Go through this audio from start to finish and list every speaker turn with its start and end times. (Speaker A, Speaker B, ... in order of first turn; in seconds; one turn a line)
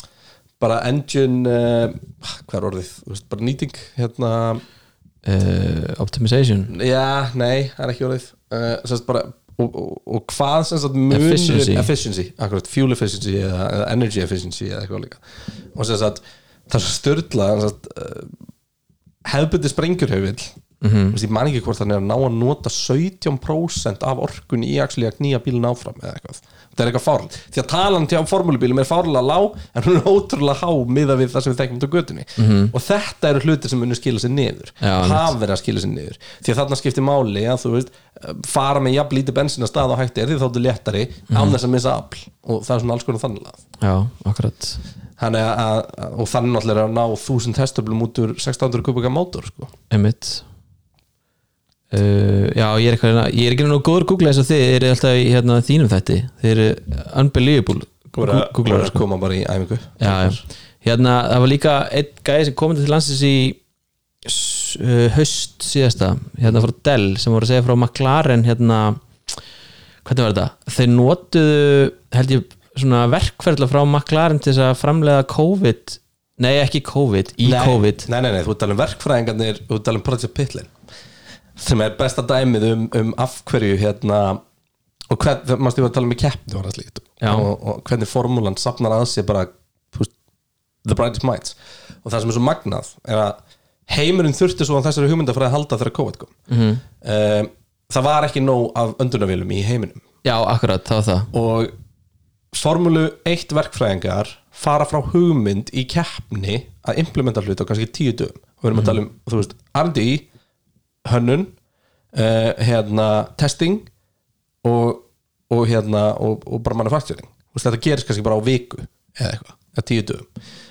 Speaker A: 0.6-4.6
Speaker B: 5.2-6.7
Speaker A: 6.7-18.4
Speaker B: 11.1-11.9
Speaker A: 19.2-20.5
Speaker B: 20.8-21.2
Speaker A: 21.1-43.6
Speaker B: 32.4-32.7
Speaker B: 34.8-35.3
Speaker B: 41.3-41.6
Speaker B: 43.8-44.8
Speaker A: 45.2-49.7
Speaker B: 49.9-50.5
Speaker B: 51.9-59.0
Speaker A: 58.1-60.4
Speaker B: 60.0-63.6
Speaker B: 64.2-69.0
Speaker B: 70.0-78.1
Speaker A: 77.4-80.7
Speaker A: 81.6-84.4
Speaker A: 85.1-90.1
Speaker B: 87.2-87.5
Speaker A: 90.8-93.4
Speaker A: 93.9-96.3
Speaker B: 96.5-96.8
Speaker A: 97.0-100.0
Speaker B: 100.2-101.3
Speaker A: 101.3-101.7
Speaker A: 102.5-110.3
Speaker A: 111.0-111.5
Speaker A: 112.1-113.9
Speaker A: 114.6-120.3